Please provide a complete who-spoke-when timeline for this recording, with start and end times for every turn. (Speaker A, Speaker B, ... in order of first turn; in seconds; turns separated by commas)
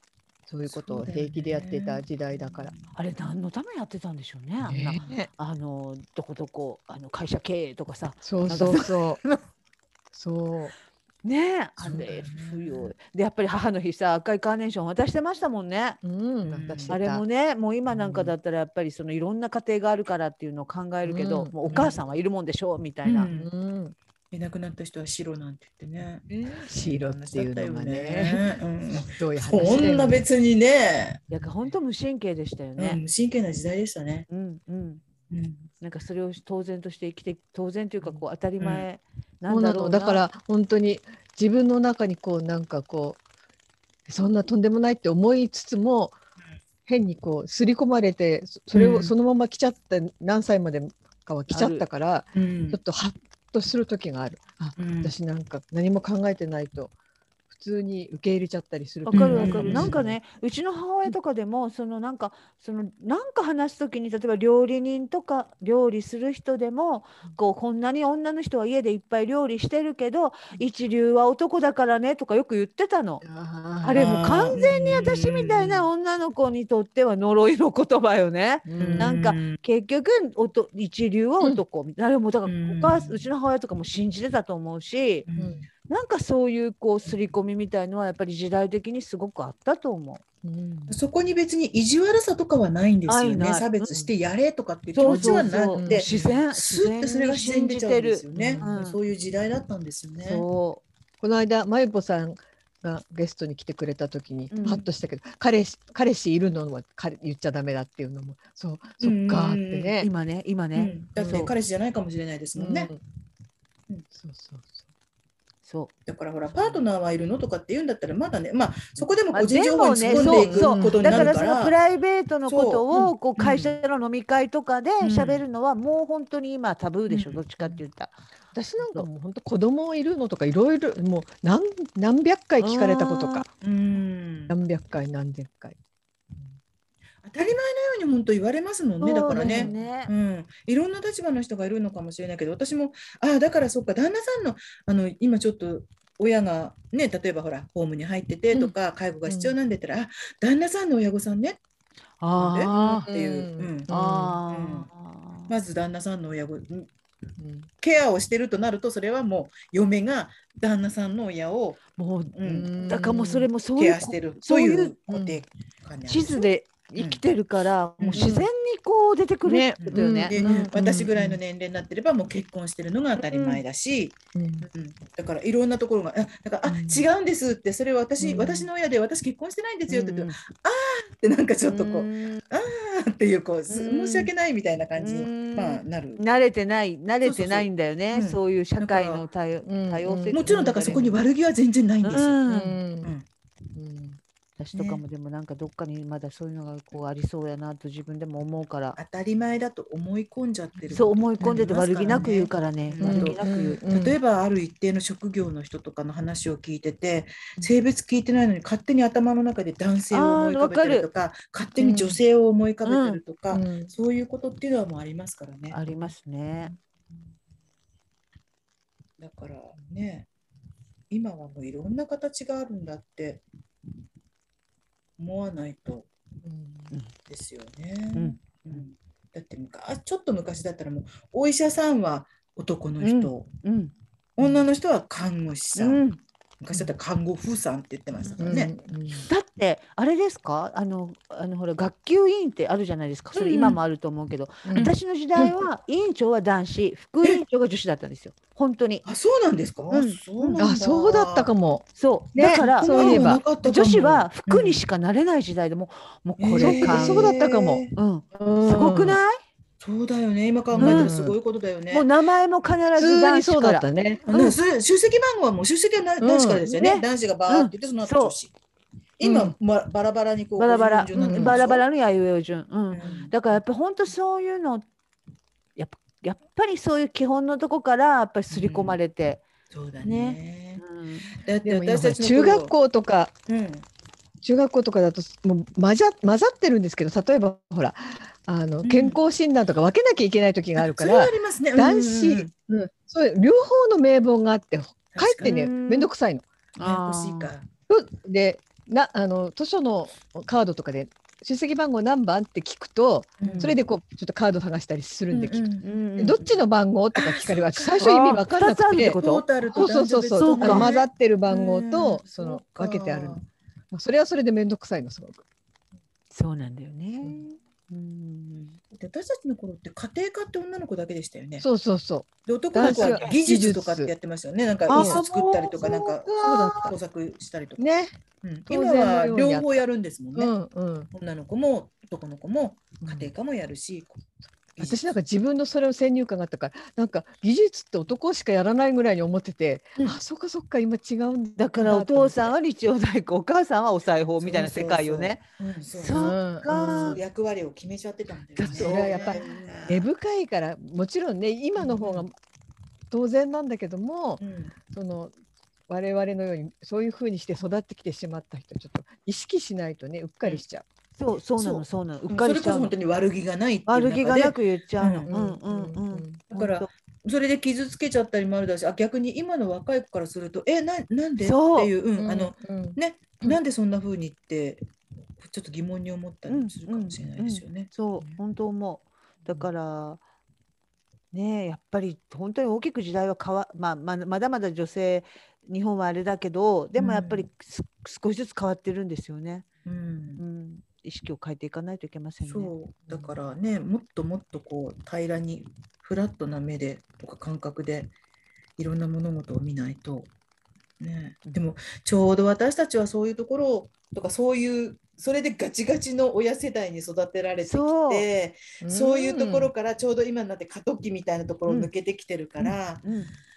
Speaker A: 0.5-2.7, Speaker B: 0.7-2.9, Speaker C: 3.0-9.4, Speaker A: 4.7-5.3, Speaker B: 4.7-5.1, Speaker A: 8.2-9.2, Speaker A: 10.1-10.7, Speaker C: 11.2-16.0, Speaker A: 11.8-12.1, Speaker B: 12.0-12.9, Speaker A: 16.0-17.2, Speaker B: 16.4-16.9, Speaker C: 16.9-23.3, Speaker A: 17.9-18.3, Speaker A: 21.1-21.5, Speaker B: 21.7-22.0, Speaker B: 23.0-23.5, Speaker A: 23.3-23.9, Speaker B: 24.3-31.2, Speaker A: 26.3-28.5, Speaker A: 29.0-30.2, Speaker C: 31.3-33.0, Speaker B: 32.8-34.3, Speaker C: 34.3-35.0, Speaker B: 35.3-35.7, Speaker C: 35.8-40.2, Speaker B: 38.6-38.9, Speaker A: 39.5-43.2, Speaker A: 44.1-46.2, Speaker A: 46.9-56.9, Speaker B: 48.7-49.1, Speaker C: 51.5-51.8, Speaker B: 52.4-52.8, Speaker B: 54.8-55.1, Speaker A: 57.5-60.2, Speaker C: 59.1-73.2, Speaker B: 59.1-60.0, Speaker A: 73.2-74.1, Speaker C: 73.8-85.3, Speaker B: 73.9-75.9, Speaker A: 78.7-79.2, Speaker B: 78.8-79.6, Speaker B: 82.5-83.3, Speaker B: 85.3-85.6, Speaker A: 85.4-85.7, Speaker C: 85.9-90.2, Speaker A: 90.4-91.0, Speaker B: 90.9-100.5, Speaker C: 93.1-94.0, Speaker C: 95.0-99.0, Speaker A: 95.1-96.1, Speaker A: 98.3-98.8, Speaker C: 100.2-100.8, Speaker A: 101.2-110.1, Speaker C: 104.5-104.8, Speaker B: 109.0-109.9, Speaker C: 110.0-111.5, Speaker B: 110.8-112.9, Speaker A: 112.5-113.0, Speaker A: 114.1-114.8, Speaker C: 115.6-115.9, Speaker B: 116.1-121.8, Speaker C: 119.3-128.1, Speaker A: 120.1-121.3, Speaker B: 122.5-123.8, Speaker B: 125.0-125.4, Speaker B: 127.1-127.5, Speaker A: 128.5-133.5, Speaker C: 128.7-129.1, Speaker C: 132.6-133.5, Speaker B: 133.6-134.5, Speaker A: 134.5-135.8, Speaker B: 137.2-151.6, Speaker C: 139.0-140.1, Speaker A: 139.3-139.9, Speaker A: 149.3-149.5, Speaker C: 152.2-153.1, Speaker B: 152.4-153.9, Speaker A: 152.7-154.4, Speaker C: 153.9-155.5, Speaker B: 154.5-154.9, Speaker B: 155.5-156.9, Speaker A: 157.4-157.7, Speaker B: 157.8-161.8, Speaker C: 162.0-165.0, Speaker B: 162.3-162.7, Speaker A: 162.5-163.5, Speaker B: 163.8-167.2, Speaker A: 165.1-165.4, Speaker C: 166.1-170.7, Speaker B: 168.0-168.3, Speaker A: 168.2-168.5, Speaker A: 169.4-171.4, Speaker B: 169.8-186.2, Speaker C: 173.3-173.6, Speaker A: 174.3-174.7, Speaker A: 176.7-177.1, Speaker A: 178.2-178.7, Speaker C: 179.9-180.3, Speaker C: 181.7-182.4, Speaker C: 183.7-184.3, Speaker C: 185.0-191.1, Speaker B: 187.2-189.2, Speaker A: 189.7-190.8, Speaker B: 190.3-192.4, Speaker C: 192.1-192.8, Speaker A: 192.5-193.1, Speaker A: 193.7-194.2, Speaker C: 194.6-199.0, Speaker B: 194.7-195.0, Speaker B: 199.0-215.8, Speaker C: 200.9-203.8, Speaker A: 201.4-201.7, Speaker A: 203.0-204.2, Speaker C: 210.1-211.1, Speaker A: 211.8-212.2, Speaker C: 212.8-213.2, Speaker A: 213.5-213.9, Speaker C: 215.7-216.7, Speaker B: 219.2-220.3, Speaker B: 221.1-223.4, Speaker B: 225.2-226.1, Speaker A: 226.4-227.0, Speaker B: 227.3-233.5, Speaker C: 228.2-228.7, Speaker C: 233.0-233.9, Speaker B: 234.4-236.0, Speaker C: 235.8-236.2, Speaker B: 236.6-238.7, Speaker A: 238.4-239.3, Speaker C: 239.3-249.1, Speaker B: 243.3-243.8, Speaker A: 244.7-245.5, Speaker B: 249.1-251.5, Speaker C: 249.9-250.7, Speaker A: 250.6-253.4, Speaker C: 252.0-259.4, Speaker B: 252.3-254.8, Speaker B: 256.4-258.0, Speaker A: 256.6-257.8, Speaker A: 258.4-259.2, Speaker B: 259.8-262.1, Speaker A: 260.7-261.4, Speaker C: 260.8-261.1, Speaker C: 261.9-264.6, Speaker A: 262.9-264.2, Speaker B: 264.3-268.5, Speaker A: 266.2-266.6, Speaker C: 266.6-268.4, Speaker B: 269.2-271.9, Speaker A: 269.2-269.6, Speaker C: 270.6-274.9, Speaker A: 271.1-271.6, Speaker B: 272.9-273.3, Speaker C: 275.8-279.4, Speaker B: 278.5-279.0, Speaker B: 279.7-280.8, Speaker C: 280.0-281.4, Speaker B: 281.4-282.7, Speaker A: 281.6-283.3, Speaker B: 283.5-283.9, Speaker A: 284.4-296.5, Speaker B: 288.8-289.2, Speaker B: 290.8-292.5, Speaker B: 295.1-295.7, Speaker C: 295.4-296.1, Speaker C: 296.8-297.5, Speaker B: 296.8-297.7, Speaker A: 297.9-309.2, Speaker B: 303.4-303.8, Speaker C: 303.4-303.7, Speaker B: 305.3-306.5, Speaker C: 305.8-306.4, Speaker B: 307.2-308.1, Speaker C: 308.0-310.9, Speaker B: 309.0-313.4, Speaker A: 309.7-315.4, Speaker C: 316.3-318.8, Speaker B: 318.9-321.6, Speaker A: 321.6-324.1, Speaker B: 322.5-327.8, Speaker C: 322.8-323.4, Speaker C: 324.9-326.9, Speaker A: 324.9-325.2, Speaker A: 326.4-326.9, Speaker A: 327.8-328.1, Speaker B: 328.4-330.5, Speaker A: 328.7-329.7, Speaker A: 330.4-331.1, Speaker B: 331.1-335.1, Speaker A: 333.0-333.3, Speaker A: 334.8-342.6, Speaker C: 341.6-345.4, Speaker B: 344.4-350.1, Speaker C: 346.0-347.2, Speaker A: 346.1-347.2, Speaker C: 348.6-349.7, Speaker A: 348.6-352.4, Speaker B: 351.8-352.3, Speaker A: 353.1-355.3, Speaker B: 354.4-354.7, Speaker A: 355.9-360.9, Speaker C: 361.2-362.9, Speaker B: 361.6-365.3, Speaker C: 363.9-366.9, Speaker A: 365.3-366.4, Speaker B: 366.5-378.0, Speaker C: 371.4-371.9, Speaker A: 372.2-373.6, Speaker C: 376.5-380.2, Speaker C: 381.3-389.7, Speaker B: 387.0-387.5, Speaker B: 389.9-390.4, Speaker C: 390.4-393.3, Speaker B: 392.4-398.1, Speaker B: 398.8-400.3, Speaker B: 401.0-413.1, Speaker C: 407.7-408.3, Speaker A: 408.8-409.7, Speaker C: 413.0-413.3